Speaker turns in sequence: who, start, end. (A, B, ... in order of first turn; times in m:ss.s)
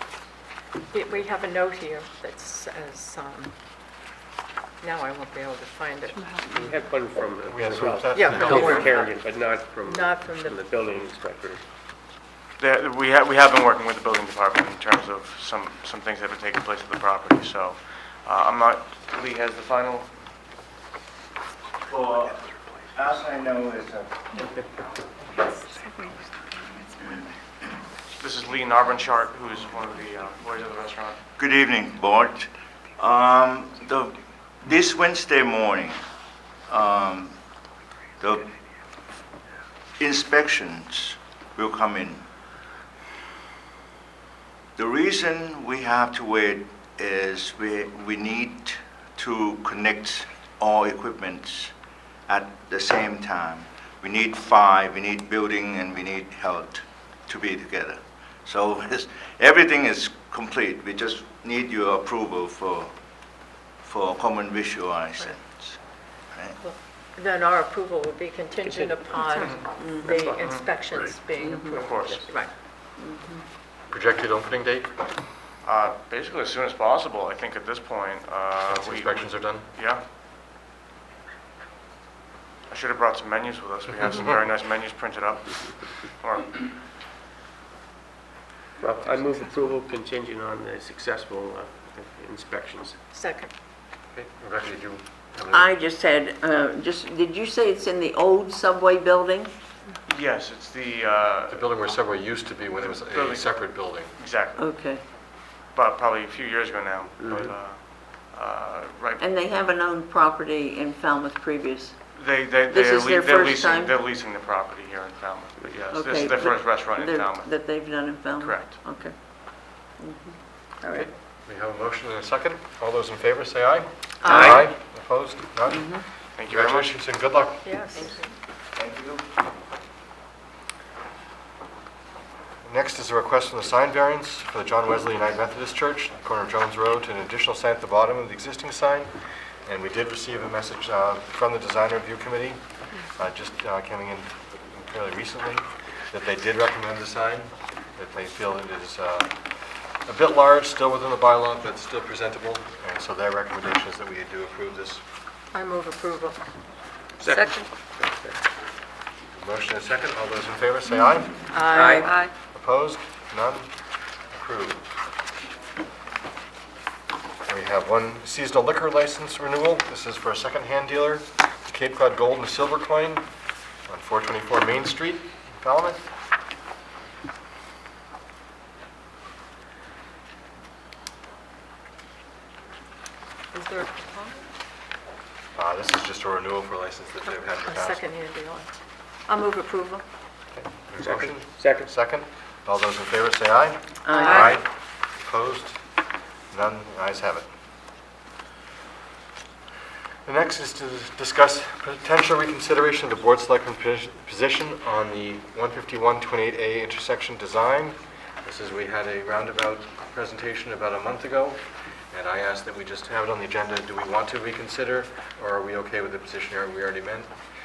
0:00.9-0:03.5 A
0:04.8-0:06.3 A
0:06.4-0:11.6 B
0:07.5-0:08.9 C
0:08.1-0:09.1 A
0:09.8-0:10.6 A
0:12.6-0:20.1 D
0:21.9-0:22.4 E
0:22.9-0:24.3 E
0:28.1-0:31.2 D
0:31.4-0:32.5 E
0:33.0-0:36.0 E
0:36.7-0:37.4 E
0:38.2-0:38.5 E
0:40.0-0:42.2 E
0:44.8-0:51.7 E
0:52.3-1:02.9 E
1:03.8-1:05.8 E
1:06.6-1:12.5 A
1:08.6-1:09.2 B
1:09.3-1:10.8 D
1:09.8-1:10.1 F
1:10.1-1:10.5 B
1:11.1-1:12.3 B
1:11.4-1:11.7 F
1:11.7-1:12.3 D
1:13.0-1:13.4 F
1:13.9-1:15.0 C
1:15.6-1:20.0 D
1:18.7-1:19.6 C
1:22.7-1:26.7 D
1:28.8-1:33.0 B
1:33.1-1:33.5 A
1:34.1-1:35.7 C
1:35.5-1:39.5 F
1:40.1-1:41.8 D
1:41.5-1:44.1 C
1:42.7-1:44.8 D
1:44.6-1:45.1 F
1:45.3-1:49.4 D
1:47.2-1:47.6 B
1:49.2-1:52.0 F
1:52.1-1:57.8 D
1:52.7-1:54.0 F
1:55.9-2:01.1 F
1:58.3-1:58.8 D
2:00.9-2:07.7 C
2:04.2-2:04.7 A
2:04.3-2:04.7 B
2:05.7-2:06.0 F
2:06.4-2:07.0 D
2:07.6-2:08.3 A
2:08.8-2:09.2 E
2:12.6-2:19.1 C
2:19.7-2:29.4 C
2:30.0-2:35.0 C
2:35.5-2:36.4 A
2:37.2-2:38.4 B
2:39.4-2:41.4 C
2:41.5-2:42.2 A
2:41.7-2:42.1 B
2:42.5-2:43.7 C
2:44.3-2:44.8 C
2:47.5-2:53.3 C
2:53.9-2:56.0 C
3:03.6-3:04.4 A
3:05.6-3:08.0 C
3:07.6-3:10.0 A
3:10.5-3:14.7 C
3:11.0-3:11.9 B
3:14.1-3:14.6 F
3:14.1-3:14.6 A
3:15.2-3:15.8 C
3:16.5-3:17.5 C
3:20.3-3:37.3 C